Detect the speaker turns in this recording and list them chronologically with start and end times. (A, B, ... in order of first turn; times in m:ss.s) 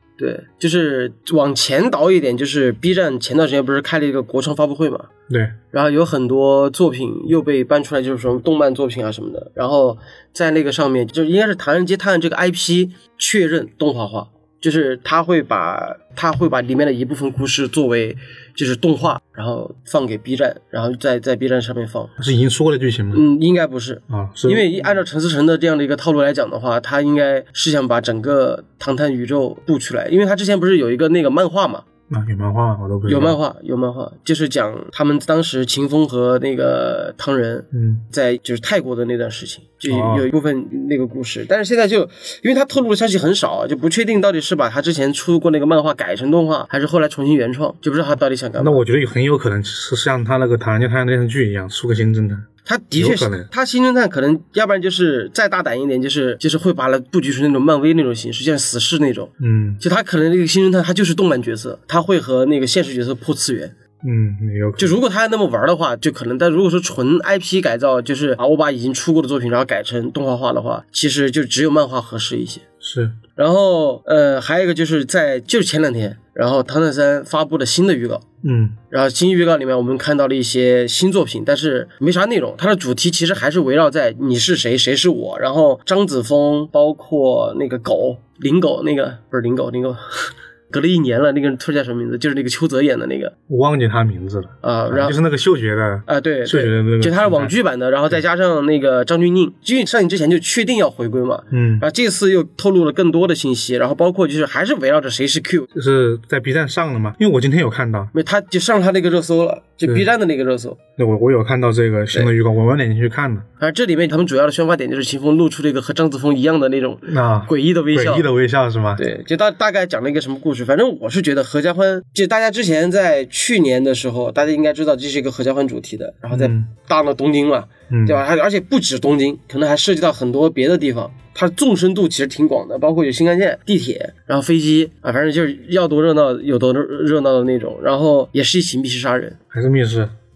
0:00.2-0:05.1 A
0:05.3-0:05.6 B
0:05.7-0:22.1 A
0:22.2-0:23.2 B
0:23.1-0:31.8 A
0:24.1-0:24.7 B
0:32.1-0:33.4 B
0:33.0-0:48.8 A
0:37.7-0:38.0 B
0:39.8-0:40.3 B
0:48.6-0:53.5 B
0:52.6-1:03.7 A
0:59.4-0:59.8 B
1:04.0-1:05.0 B
1:04.8-1:12.6 A
1:12.8-1:13.2 B
1:13.4-1:18.2 A
1:18.4-1:18.8 B
1:18.9-1:33.3 A
1:33.5-1:37.5 B
1:34.6-1:35.2 A
1:36.0-1:45.7 A
1:41.5-1:41.8 B
1:45.7-1:48.1 B
1:48.1-1:50.8 A
1:51.0-1:53.5 B
1:53.6-1:58.3 A
1:57.0-1:59.0 B
1:59.0-2:19.4 A
2:06.3-2:06.7 B
2:07.9-2:08.2 B
2:19.5-2:20.1 B